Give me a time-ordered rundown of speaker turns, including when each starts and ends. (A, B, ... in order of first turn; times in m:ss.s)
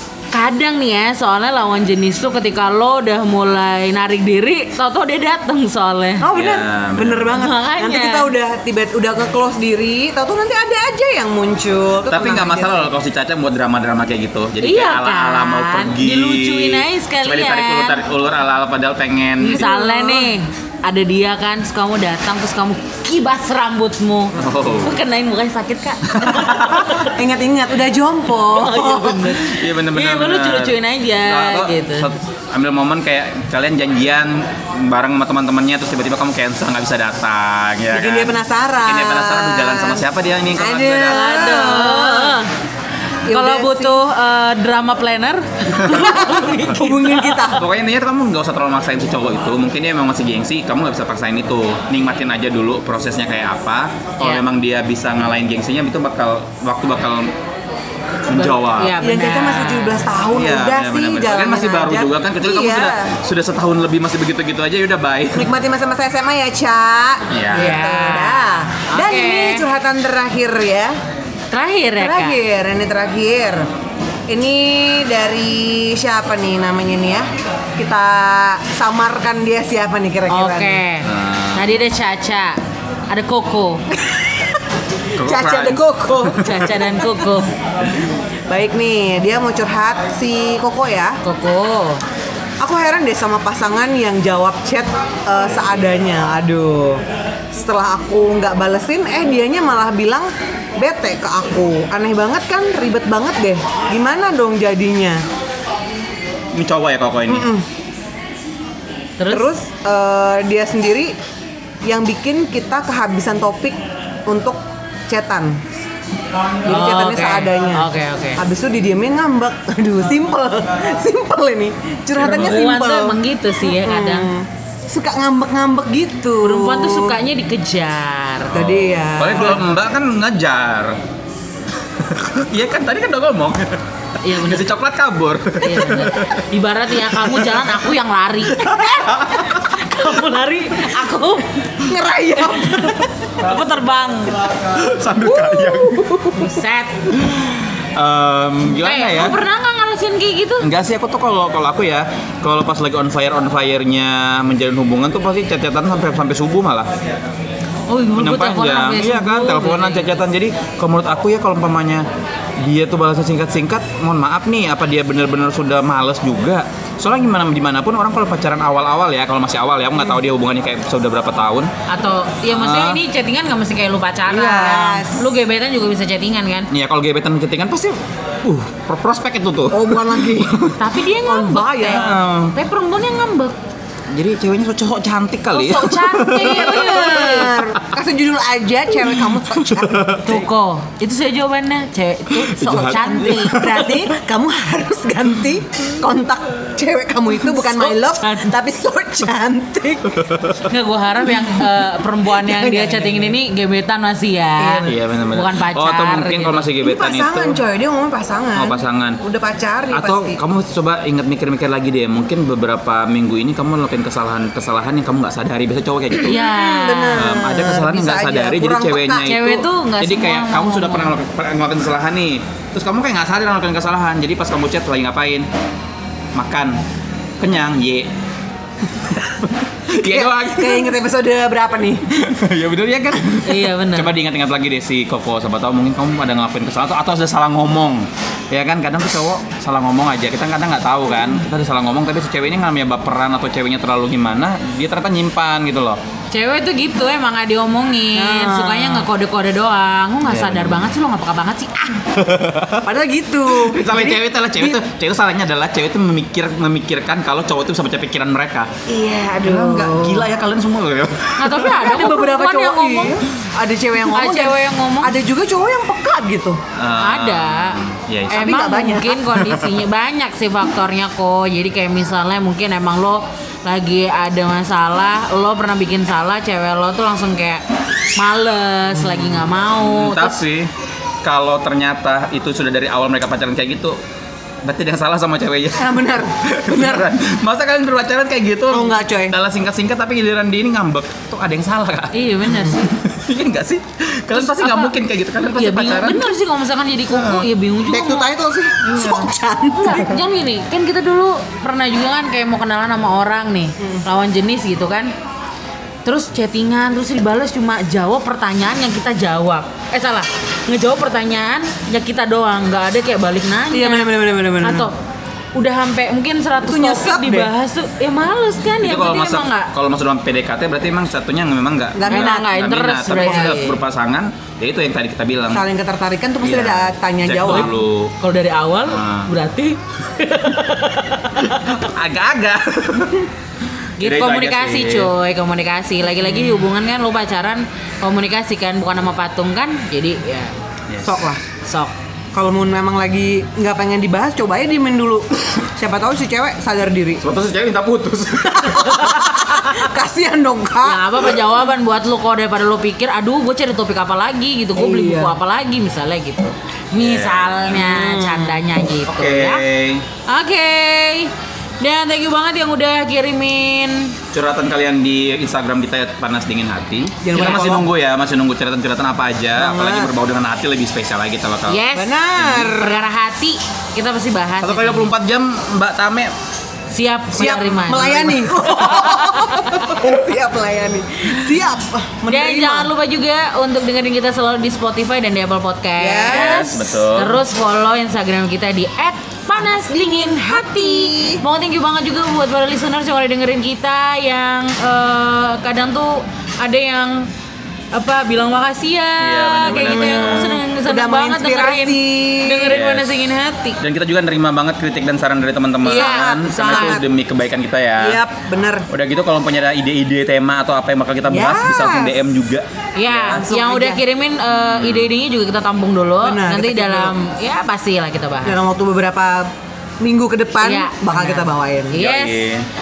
0:00.3-0:06.3 A
0:06.2-0:12.9 B
0:06.3-0:07.4 C
0:07.4-0:08.3 A
0:12.1-0:19.6 C
0:14.6-0:18.0 A
0:19.4-0:20.3 B
0:19.4-0:27.1 A
0:24.4-0:25.0 C
0:26.1-0:26.9 C
0:26.9-0:29.4 B
0:28.4-0:32.1 A
0:29.4-0:41.8 C
0:37.9-0:42.4 B
0:41.0-0:42.5 A
0:43.3-0:44.0 B
0:43.3-0:47.4 A
0:45.8-0:46.1 C
0:45.9-0:47.6 B
0:47.6-0:57.3 C
0:58.3-0:59.0 C
0:58.3-1:00.1 A
0:59.0-1:03.1 B
1:00.3-1:05.5 C
1:05.3-1:11.0 B
1:07.3-1:07.7 C
1:07.6-1:09.6 A
1:11.5-1:12.4 A
1:12.0-1:13.7 B
1:14.3-1:20.8 B
1:20.3-1:23.9 A
1:21.0-1:21.7 C
1:23.9-1:24.6 B
1:25.2-1:26.8 C
1:25.2-1:26.7 B
1:26.4-1:27.5 A
1:28.5-1:31.2 B
1:31.2-1:32.0 A
1:32.6-1:45.2 B
1:46.6-1:47.5 C
1:47.3-1:47.7 B
1:49.2-1:49.5 A
1:49.3-1:51.2 B
1:51.8-1:55.6 B
1:56.6-1:58.4 A
1:56.6-2:07.2 B
2:02.2-2:04.3 A
2:02.2-2:02.7 C
2:06.4-2:08.5 A
2:08.5-2:09.6 B
2:08.5-2:11.0 C
2:11.8-2:16.4 C
2:14.2-2:14.7 A
2:15.6-2:21.8 A
2:17.1-2:17.8 C
2:18.5-2:20.0 C
2:21.8-2:23.3 B
2:23.4-2:24.4 A
2:24.6-2:26.4 C
2:25.2-2:26.3 B
2:26.4-2:27.1 A
2:27.1-2:29.4 C
2:28.8-2:30.7 A
2:30.6-2:36.9 C
2:37.9-2:40.2 A
2:38.2-2:42.1 C
2:42.6-2:51.7 C
2:51.9-2:56.7 A
2:52.5-2:53.0 C
2:54.3-2:55.3 B
2:56.7-3:00.7 C
2:59.7-3:00.7 B
3:00.7-3:03.6 A
3:01.2-3:02.1 B
3:01.9-3:02.5 C
3:04.1-3:07.8 C
3:05.5-3:07.5 A
3:06.2-3:10.2 B
3:09.3-3:10.4 C
3:10.2-3:13.6 A
3:12.5-3:14.0 C
3:12.6-3:20.3 B
3:17.4-3:18.5 A
3:20.2-3:20.7 C
3:20.6-3:26.7 A
3:22.3-3:23.4 B
3:24.6-3:25.0 B
3:24.8-3:27.6 C
3:26.8-3:30.4 B
3:28.6-3:29.2 C
3:29.9-3:36.4 C
3:36.2-3:37.3 A
3:36.3-3:39.4 B
3:37.2-3:45.5 C
3:39.2-3:41.1 A
3:46.4-3:46.8 C
3:47.4-3:48.1 C
3:49.0-3:51.0 C
3:50.0-3:52.3 B
3:52.2-4:06.0 C
3:53.4-3:54.2 A
4:06.3-4:12.0 A
4:08.1-4:09.1 B
4:10.2-4:10.9 C
4:12.1-4:12.8 C
4:12.8-4:14.8 B
4:13.5-4:18.7 C
4:18.9-4:20.3 B
4:19.4-4:21.9 C
4:21.4-4:23.2 A
4:21.7-4:26.6 B
4:24.0-4:25.2 A
4:26.8-4:28.5 C
4:27.0-4:37.6 A
4:28.3-4:29.2 B
4:38.2-4:40.4 A
4:39.0-4:39.2 B
4:39.8-4:40.7 C
4:41.2-4:44.0 C
4:44.6-4:56.3 C
4:45.7-4:47.1 B
4:48.7-4:49.4 B
4:52.1-4:52.9 A
4:54.3-4:58.3 A
4:57.1-4:57.5 C
4:57.9-5:00.2 B
4:58.9-4:59.3 C
4:59.7-5:05.1 A
5:06.0-5:14.1 A
5:13.7-5:14.9 B
5:14.6-5:14.9 A
5:15.6-5:19.7 A
5:16.6-5:17.5 B
5:18.8-5:25.6 C
5:21.9-5:22.4 B
5:22.1-5:23.8 A
5:23.1-5:23.6 B
5:25.5-5:27.7 B
5:26.4-5:28.1 C
5:27.5-5:31.7 A
5:28.9-5:29.3 C
5:31.4-5:33.3 C
5:34.0-5:40.5 A
5:34.0-5:35.1 C
5:40.9-5:41.2 C
5:41.0-5:41.4 B
5:41.6-5:41.9 A
5:42.3-5:47.2 B
5:47.2-5:49.4 C
5:48.5-5:51.2 B
5:49.2-5:49.9 A
5:50.8-5:59.6 A
5:54.8-5:55.4 B
5:57.0-5:57.9 C
5:57.8-5:58.6 B
5:59.1-6:00.0 C
6:00.3-6:04.1 A
6:04.3-6:11.8 C
6:07.2-6:07.9 B
6:07.4-6:07.6 A
6:09.6-6:10.1 B
6:11.7-6:15.1 A
6:11.9-6:13.0 B
6:12.4-6:12.7 C
6:14.6-6:16.3 C
6:16.9-6:19.9 A
6:17.3-6:22.9 B
6:22.3-6:37.3 A
6:26.0-6:26.7 B
6:26.3-6:27.4 C
6:29.5-6:31.4 B
6:37.9-6:43.8 A
6:39.2-6:40.6 C
6:39.8-6:42.8 B
6:42.7-6:43.2 C
6:43.8-6:48.2 C
6:45.8-6:47.0 A
6:45.8-6:47.0 B
6:48.0-6:48.9 B
6:48.9-6:53.4 C
6:51.3-6:52.2 B
6:53.0-6:58.6 A
6:53.3-6:54.0 B
6:54.5-6:55.1 C
6:56.2-6:57.1 B
6:58.4-7:02.0 B
7:00.6-7:02.5 A
7:01.9-7:02.7 C